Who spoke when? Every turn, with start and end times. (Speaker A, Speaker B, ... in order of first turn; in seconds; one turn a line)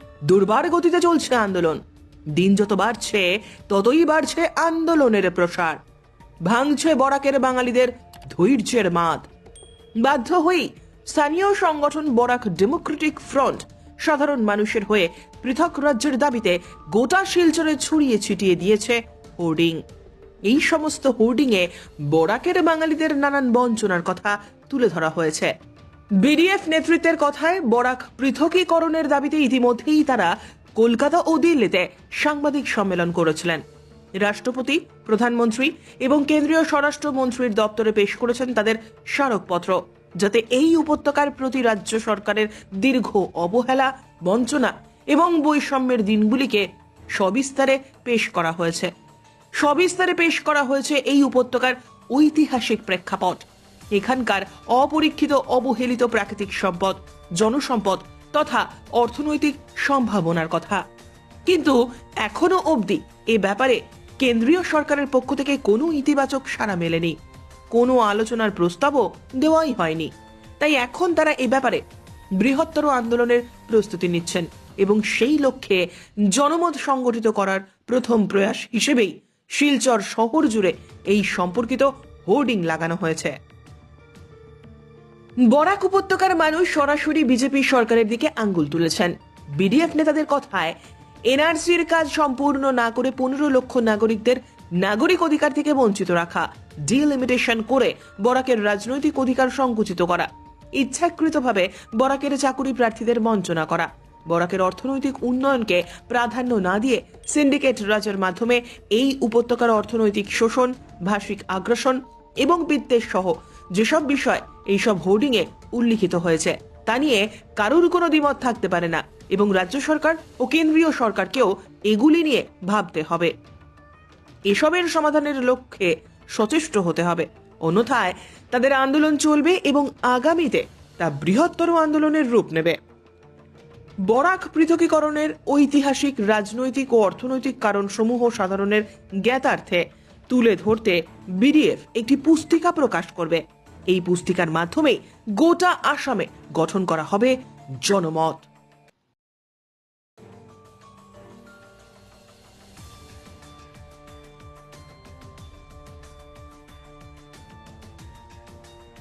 Speaker A: 0.3-1.8
Speaker A: 2.4-5.8
Speaker A: 6.5-9.3
Speaker A: 10.0-19.8
Speaker A: 20.4-25.5
Speaker A: 26.2-33.6
Speaker A: 34.2-46.6
Speaker A: 47.1-48.9
Speaker A: 49.6-60.8
Speaker A: 61.5-67.2
Speaker A: 67.7-71.8
Speaker A: 72.4-83.3
Speaker A: 85.5-90.8
Speaker A: 91.3-123.3
Speaker A: 124.5-132.8
Speaker A: 134.1-148.5